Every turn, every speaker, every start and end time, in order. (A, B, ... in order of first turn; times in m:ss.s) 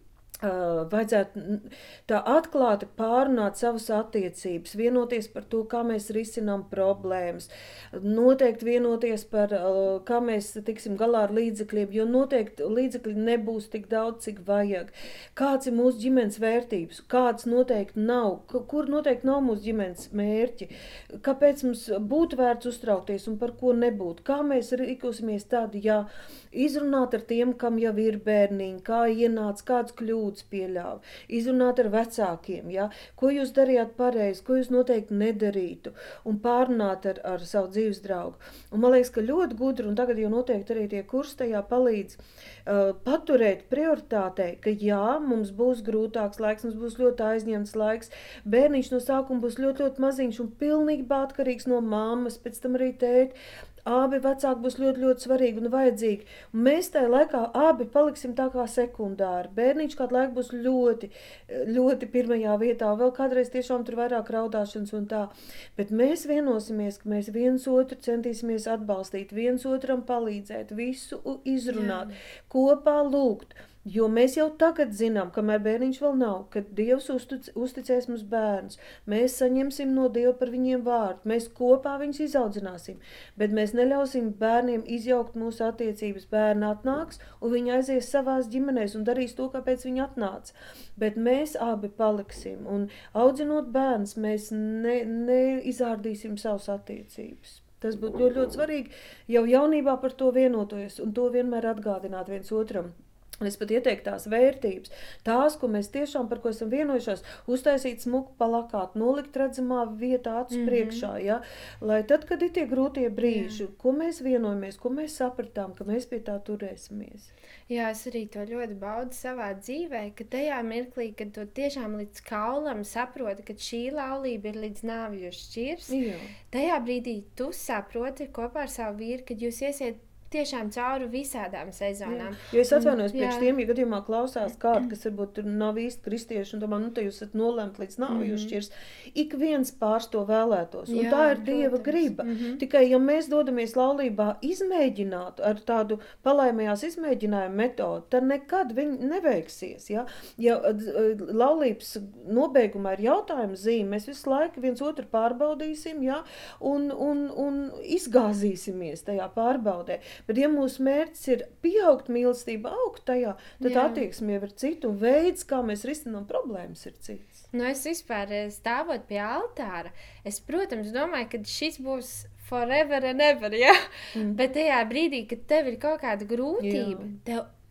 0:00.4-0:20.7 A
0:21.2-1:57.3 A
1:11.7-1:12.2 B
1:50.5-1:51.1 B
1:53.2-1:53.6 B
1:57.7-2:06.0 B
2:05.9-2:06.3 A
2:06.5-2:13.5 B
2:12.1-2:47.4 A
2:18.1-2:18.6 B
2:20.9-2:22.6 B
2:43.6-2:44.1 B
2:47.5-2:57.4 B
2:54.2-2:54.4 A
2:56.6-2:57.2 A